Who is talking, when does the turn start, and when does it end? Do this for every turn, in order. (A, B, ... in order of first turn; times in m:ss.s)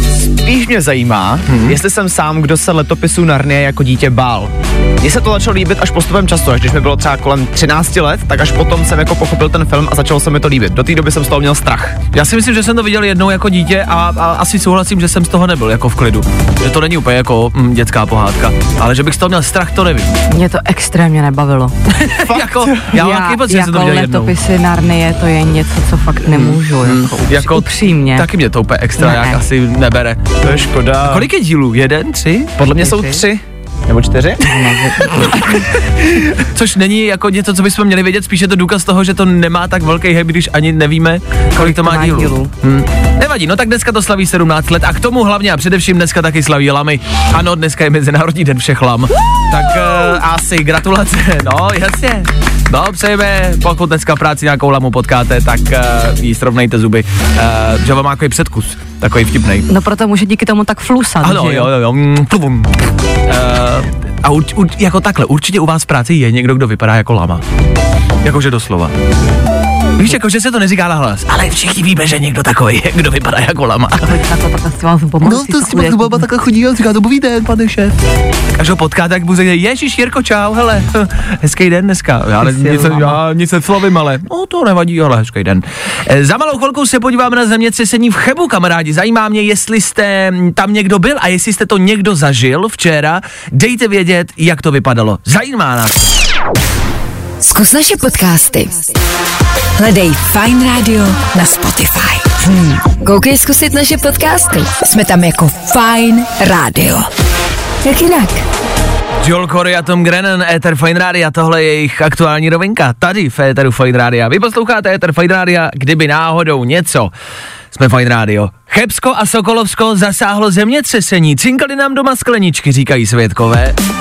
0:00.2-0:12.0 A
0:01.5-0:01.8 B
0:12.1-0:20.1 B
0:20.3-0:21.7 C
0:21.9-0:24.3 B
0:22.3-0:22.8 A
0:22.9-0:28.2 C
0:26.3-0:30.2 B
0:29.0-0:29.4 C
0:30.4-0:31.3 A
0:31.1-0:32.6 B
0:32.6-0:35.1 A
0:32.8-0:33.2 C
0:34.4-0:35.6 C
0:36.2-0:59.7 B
0:41.6-0:42.5 C
0:59.7-1:01.7 C
1:01.2-1:02.7 B
1:03.3-1:07.4 B
1:08.2-1:08.9 B
1:10.0-1:14.1 B
1:14.0-1:16.2 C
1:15.2-1:18.0 B
1:18.5-1:36.1 B
1:22.4-1:23.2 C
1:37.4-1:38.9 D
1:39.8-1:47.1 D
1:47.8-1:48.4 D
1:49.2-1:57.1 B
1:57.7-2:03.8 B